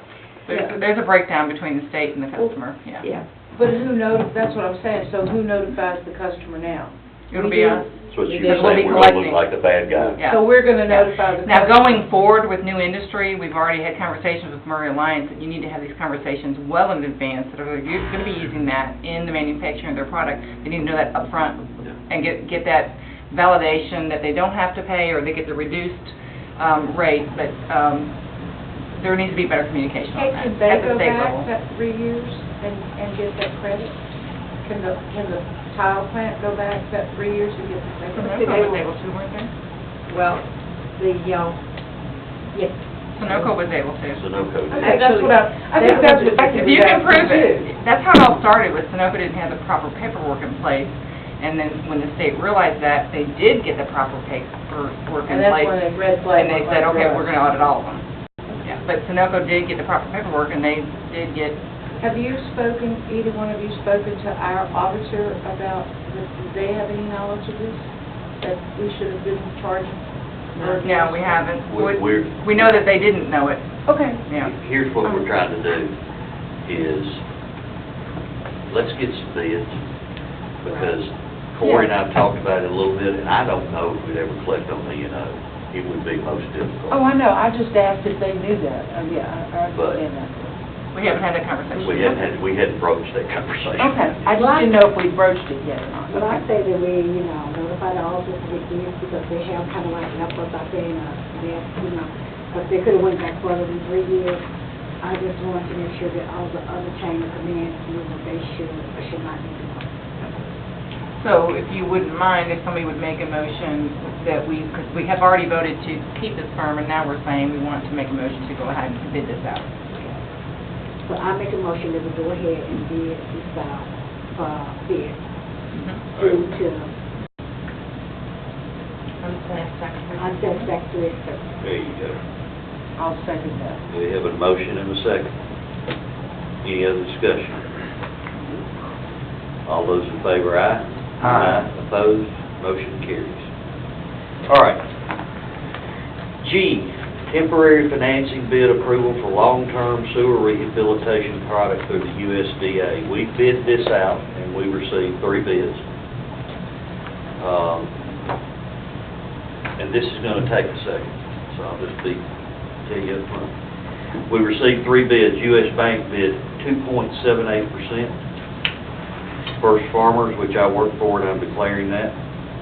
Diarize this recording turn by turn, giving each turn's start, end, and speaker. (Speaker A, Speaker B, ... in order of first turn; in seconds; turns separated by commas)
Speaker A: 0.5-3.1, Speaker B: 0.5-0.8, Speaker B: 3.5-8.8, Speaker A: 7.3-9.5, Speaker C: 8.1-10.2, Speaker B: 10.2-12.0, Speaker A: 10.2-28.1, Speaker A: 28.9-31.5, Speaker B: 30.1-34.0, Speaker B: 34.6-38.5, Speaker A: 38.1-39.5, Speaker D: 38.1-38.8, Speaker D: 40.1-41.6, Speaker D: 42.5-43.5, Speaker A: 43.1-44.2, Speaker C: 44.1-45.0, Speaker B: 44.7-47.7, Speaker D: 44.8-46.8, Speaker A: 45.8-58.0, Speaker B: 55.3-57.3, Speaker A: 58.6-61.6, Speaker B: 62.0-67.9, Speaker B: 68.4-71.5, Speaker A: 70.6-74.5, Speaker C: 71.6-72.8, Speaker B: 73.9-74.2, Speaker C: 74.4-75.9, Speaker B: 75.0-75.3, Speaker C: 76.6-77.2, Speaker C: 78.7-79.8, Speaker C: 80.6-87.0, Speaker D: 80.7-80.9, Speaker B: 86.9-90.5, Speaker C: 89.7-90.0, Speaker A: 90.9-92.2, Speaker C: 91.8-94.2, Speaker B: 93.8-96.4, Speaker E: 94.3-94.8, Speaker E: 96.1-104.4, Speaker E: 105.0-109.9, Speaker A: 111.2-119.7, Speaker E: 121.0-125.2, Speaker A: 125.7-126.0, Speaker E: 126.1-126.9, Speaker A: 129.2-130.7, Speaker E: 130.1-131.4, Speaker C: 131.6-132.2, Speaker B: 133.0-133.8, Speaker C: 133.9-135.3, Speaker C: 136.6-137.7, Speaker C: 139.7-143.4, Speaker C: 144.5-144.8, Speaker C: 146.4-155.8, Speaker C: 157.4-157.9, Speaker C: 159.8-162.2, Speaker C: 162.8-163.5, Speaker C: 164.3-168.1, Speaker C: 169.6-172.1